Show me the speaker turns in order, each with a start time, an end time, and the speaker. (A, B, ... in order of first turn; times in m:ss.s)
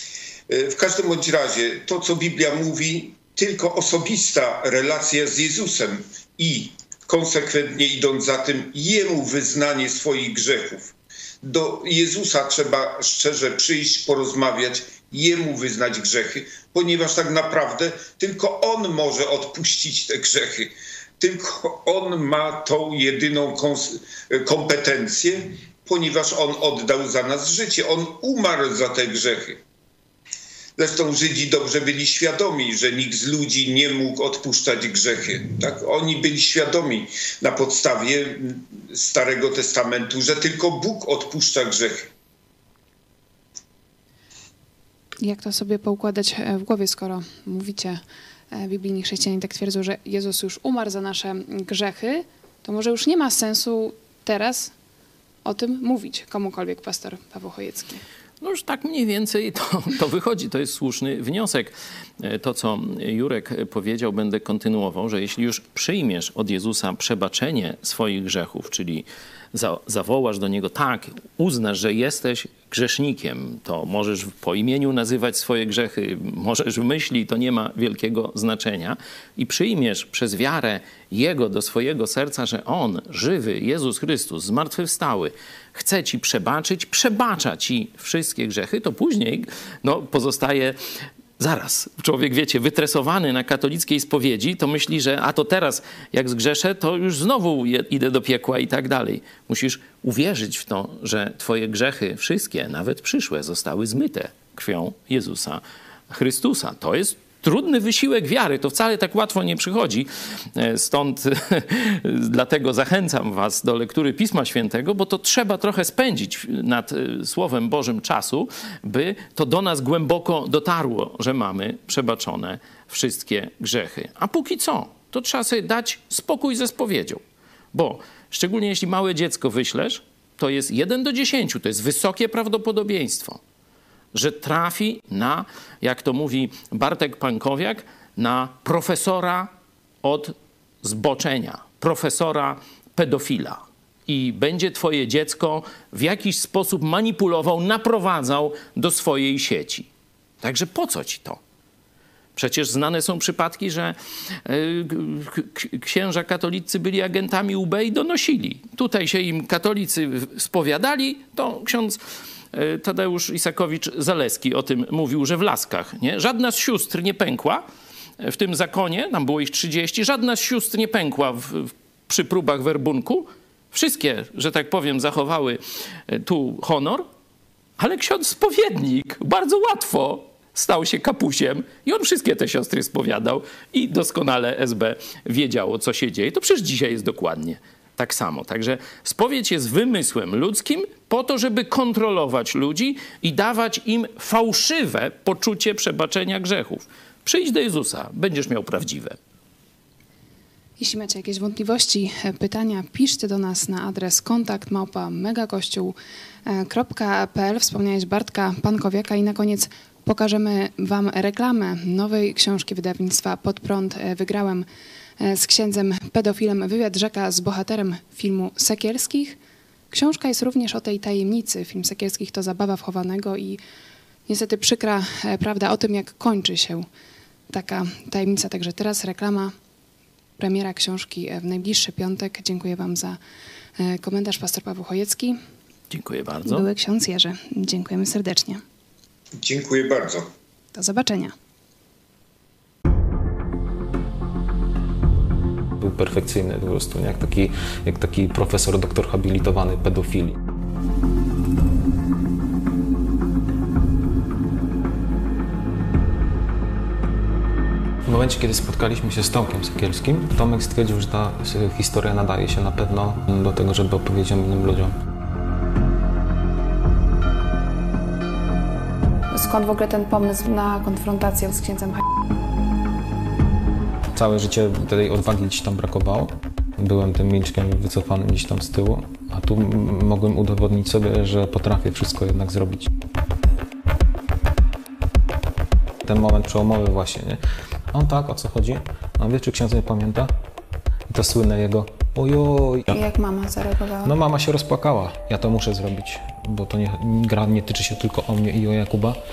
0:00.5-0:29.6 A
0:30.8-0:42.1 A
0:45.2-0:54.7 B
0:55.4-0:58.0 B
0:58.4-1:30.8 C
1:31.4-2:07.2 C
2:07.7-2:13.4 C
2:14.1-2:19.5 C
2:20.0-2:29.9 C
2:30.4-2:31.4 C
2:32.4-2:42.0 C
2:42.5-2:47.6 C
2:48.2-2:57.0 C
2:57.8-3:19.2 C
3:20.8-3:25.9 B
3:26.5-3:34.7 B
3:35.2-3:39.4 B
3:39.9-3:43.6 B
3:44.3-3:46.8 B
3:47.5-3:49.5 B
3:50.4-3:53.2 B
3:53.8-3:55.4 B
3:55.9-3:56.6 C
3:56.4-3:58.6 B
3:59.4-4:00.3 A
4:00.7-4:01.3 B
4:05.8-4:10.4 D
4:18.0-4:25.0 D
4:29.3-4:32.0 B
4:34.1-4:42.9 D
4:46.0-4:47.4 D
4:47.9-4:50.3 D
4:51.1-4:53.0 D
4:52.9-4:54.1 B
4:54.0-4:59.2 D